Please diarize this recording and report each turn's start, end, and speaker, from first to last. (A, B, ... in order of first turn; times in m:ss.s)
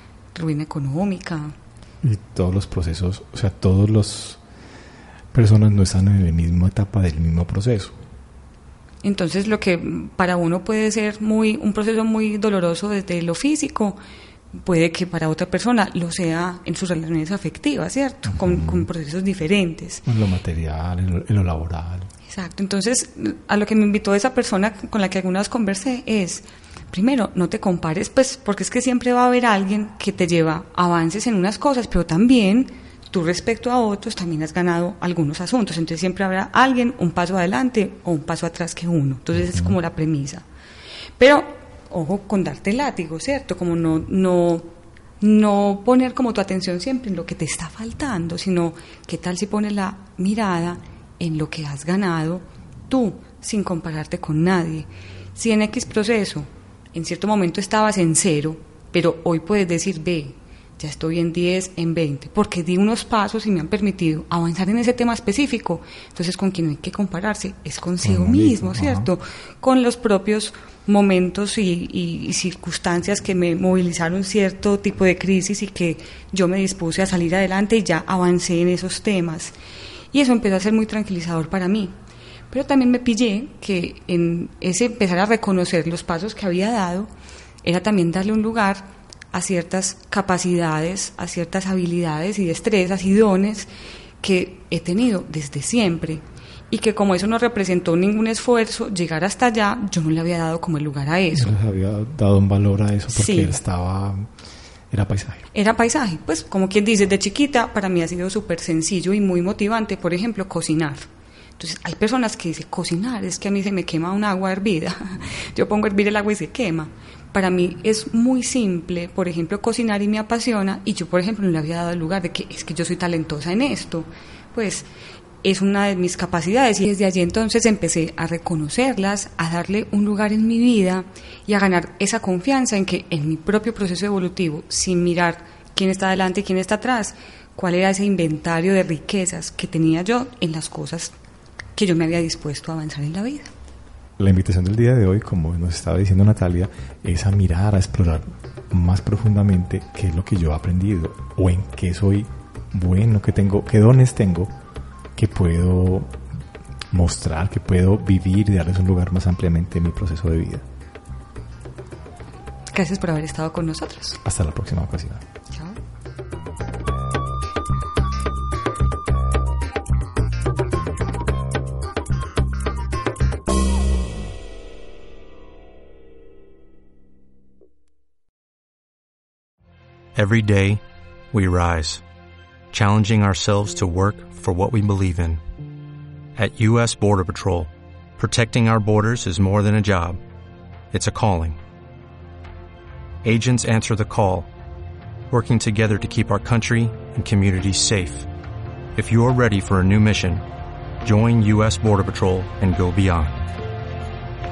0:00.3-0:01.5 A
0:02.0-0:04.4 B
0:05.3-0:08.0 B
0:09.0-0:14.0 A
0:14.6-0:20.0 A
0:18.3-0:18.9 B
0:20.0-0:22.1 B
0:22.3-0:40.4 A
0:39.4-0:39.7 B
0:41.2-0:44.6 A
0:45.2-1:19.5 A
1:08.0-1:09.1 B
1:20.1-1:21.9 A
1:22.5-1:27.1 A
1:27.6-1:41.5 A
1:41.3-1:44.3 B
1:43.1-1:43.6 A
1:44.9-1:45.4 B
1:45.5-2:04.9 A
2:05.4-2:21.1 A
2:21.8-2:23.5 A
2:24.2-2:34.5 B
2:35.2-2:36.2 B
2:36.9-2:40.6 B
2:42.7-2:44.2 A
2:44.2-2:45.2 B
2:45.5-2:45.8 A
3:00.1-3:00.8 C
3:01.3-3:02.0 C
3:02.7-3:05.4 C
3:06.4-3:10.2 C
3:10.9-3:11.6 C
3:13.2-3:14.5 C
3:15.3-3:18.3 C
3:18.9-3:20.4 C
3:21.0-3:23.4 C